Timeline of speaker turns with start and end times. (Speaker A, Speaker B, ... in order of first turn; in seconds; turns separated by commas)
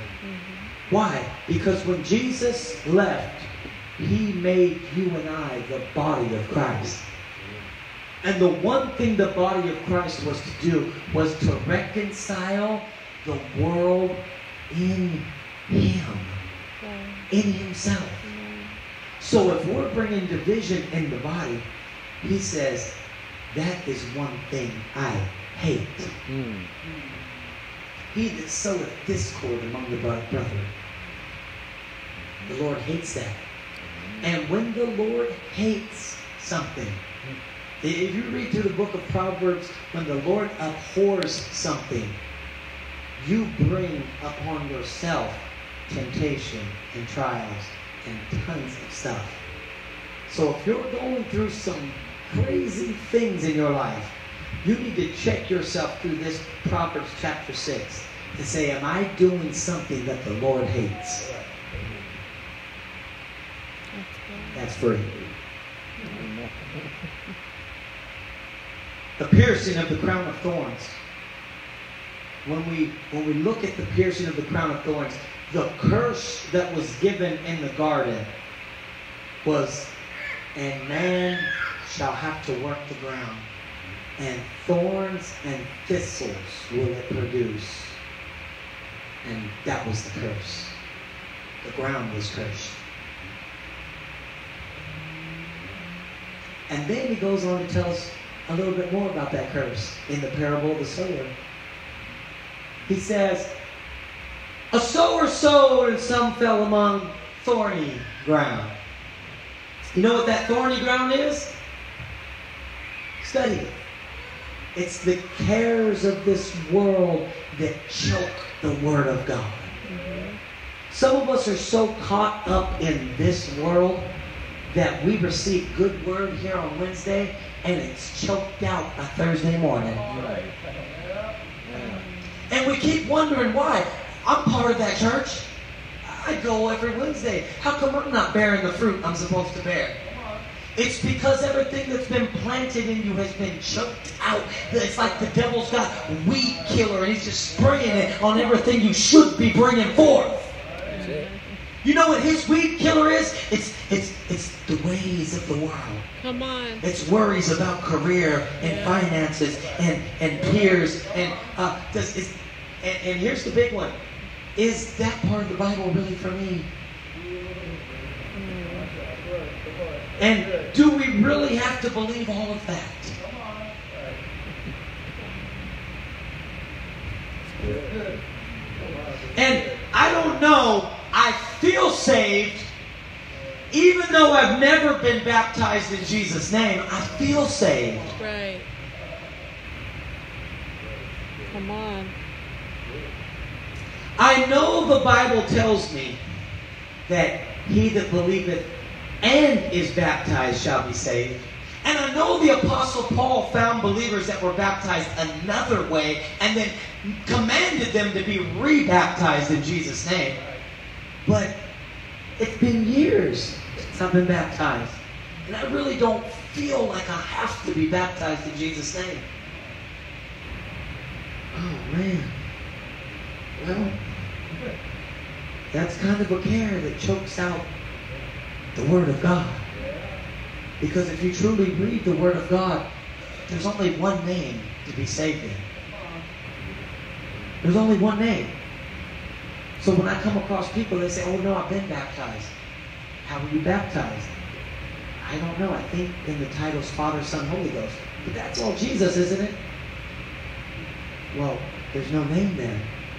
Speaker A: 0.2-0.7, Speaker B: 0.9-7.0, Speaker B: 8.2-16.4, Speaker A: 16.8-17.3, Speaker B: 17.3-18.2, Speaker A: 18.2-18.8, Speaker B: 19.2-21.6, Speaker B: 22.2-22.9, Speaker B: 23.5-26.1, Speaker C: 26.3-26.7, Speaker B: 28.1-30.7, Speaker B: 32.5-33.4, Speaker C: 33.8-34.3, Speaker B: 34.2-37.0, Speaker B: 37.8-42.1, Speaker B: 43.1-49.4, Speaker B: 50.3-61.2, Speaker A: 63.9-65.3, Speaker B: 64.5-65.1, Speaker C: 66.0-67.1, Speaker B: 69.2-71.0, Speaker B: 72.4-78.3, Speaker B: 79.4-79.9, Speaker B: 80.5-83.5, Speaker B: 84.2-88.0, Speaker B: 89.2-90.8, Speaker B: 91.6-92.8, Speaker B: 96.7-101.3, Speaker B: 102.9-103.5, Speaker B: 104.7-108.8, Speaker B: 109.9-111.5, Speaker B: 113.2-113.7, Speaker B: 114.7-119.7, Speaker A: 119.8-120.4, Speaker B: 120.9-124.1, Speaker B: 124.7-130.1, Speaker C: 130.1-130.5, Speaker C: 131.6-132.0, Speaker A: 131.7-132.3, Speaker B: 131.7-135.4, Speaker B: 136.0-140.0, Speaker B: 140.8-150.4, Speaker A: 149.9-151.6, Speaker C: 150.9-151.3, Speaker B: 151.8-156.1, Speaker A: 156.2-156.9, Speaker B: 156.8-163.9, Speaker A: 158.6-159.2, Speaker B: 164.6-166.7, Speaker A: 168.3-168.9, Speaker B: 170.2-173.2, Speaker B: 179.3-182.7, Speaker B: 183.7-188.1, Speaker A: 188.1-188.7, Speaker A: 191.5-192.1, Speaker B: 194.2-196.2, Speaker B: 197.1-198.7, Speaker B: 199.2-210.4, Speaker B: 211.2-211.5, Speaker B: 212.4-219.3, Speaker B: 221.5-222.3, Speaker B: 223.6-224.0, Speaker B: 225.7-227.7, Speaker B: 228.7-229.6, Speaker B: 230.8-232.8, Speaker B: 233.5-235.7, Speaker B: 237.6-238.5, Speaker B: 239.8-242.5, Speaker B: 243.2-244.3, Speaker B: 245.2-249.6, Speaker B: 251.3-252.9